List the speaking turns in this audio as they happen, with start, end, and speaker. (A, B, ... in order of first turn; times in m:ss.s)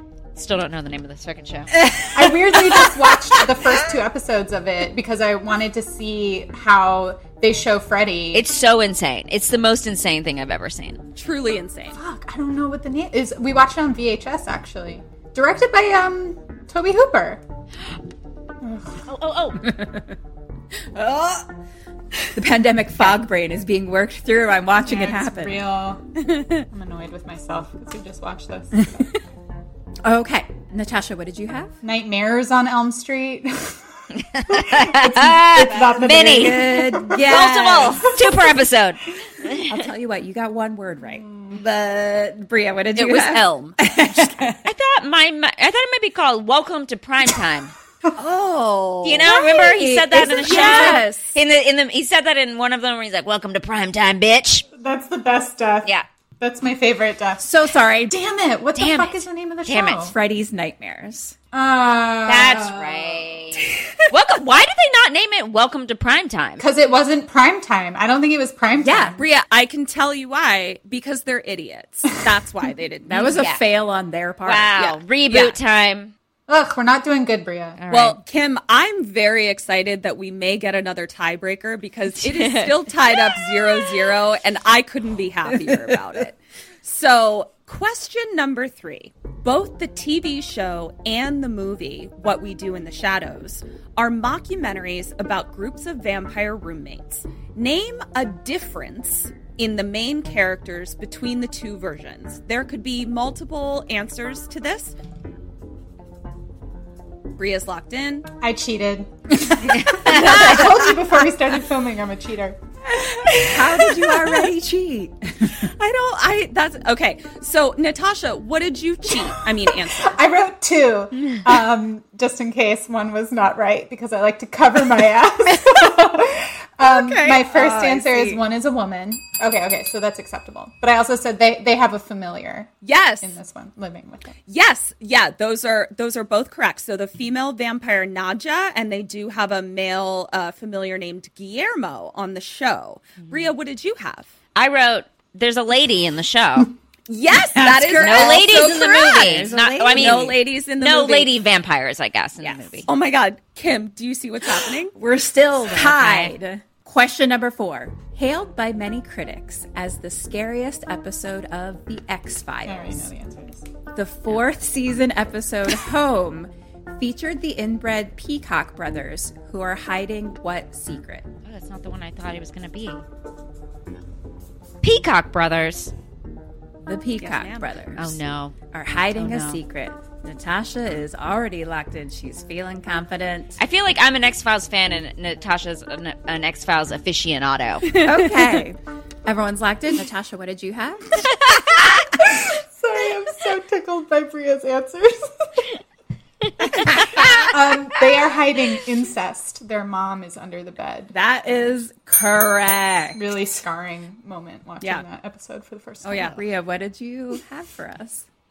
0:00.4-0:01.8 A
0:01.8-0:02.3 B
0:02.1-0:08.4 C
0:08.3-0:11.0 A
0:11.2-0:12.0 D
0:12.0-0:17.4 C
0:18.6-0:19.0 C
0:19.1-0:19.6 A
0:19.6-0:20.1 B
0:21.0-0:21.5 B
0:22.3-0:25.6 B
0:24.8-0:26.0 C
0:26.2-0:26.7 D
0:26.7-0:29.1 C
0:28.8-0:29.1 B
0:30.0-0:31.8 B
0:31.8-0:33.8 C
0:34.2-0:39.8 A
0:34.5-0:37.2 C
0:35.8-0:38.2 B
0:38.0-0:38.6 C
0:39.6-0:44.7 B
0:41.2-0:41.6 C
0:42.9-0:43.8 D
0:44.6-0:47.7 A
0:48.1-0:49.3 D
0:49.0-0:54.6 A
0:49.2-0:51.2 B
0:50.4-0:51.4 D
0:54.8-0:57.4 C
0:57.4-0:58.2 B
0:58.1-1:00.1 C
0:58.8-1:00.1 A
1:00.1-1:01.4 B
1:01.5-1:03.2 C
1:02.2-1:06.6 A
1:06.6-1:09.2 C
1:08.8-1:09.2 B
1:09.2-1:13.5 D
1:13.1-1:14.7 B
1:13.4-1:13.6 A
1:14.4-1:16.1 A
1:14.8-1:15.6 D
1:16.5-1:17.8 C
1:17.8-1:18.2 A
1:17.9-1:45.0 D
1:22.2-1:22.8 A
1:25.6-1:26.0 B
1:47.4-1:48.3 D
1:48.4-1:52.6 C
1:49.8-1:50.7 A
1:50.1-1:50.7 B
1:52.9-1:55.7 B
1:55.6-2:00.1 D
1:59.4-2:14.4 C
2:05.5-2:06.0 D
2:06.8-2:08.4 D
2:12.8-2:13.4 D
2:14.5-2:24.3 D
2:24.6-2:26.7 A
2:27.1-2:31.3 D
2:27.6-2:30.4 B
2:28.0-2:32.9 A
2:32.4-2:35.0 D
2:34.9-2:43.1 B
2:35.7-2:36.3 A
2:42.6-2:43.6 C
2:43.9-2:51.3 B
2:51.4-2:53.0 A
2:54.8-2:55.9 A
2:56.8-2:58.2 B
2:57.2-2:57.8 D
2:58.0-2:58.6 A
2:58.7-3:03.6 B
2:59.2-2:59.6 A
3:03.6-3:08.0 A
3:07.9-3:11.4 B
3:12.2-3:15.7 C
3:17.0-3:17.5 B
3:17.1-3:21.1 C
3:21.1-3:23.2 B
3:23.1-3:26.4 C
3:24.8-3:25.1 D
3:26.0-3:26.4 D
3:26.2-3:28.3 B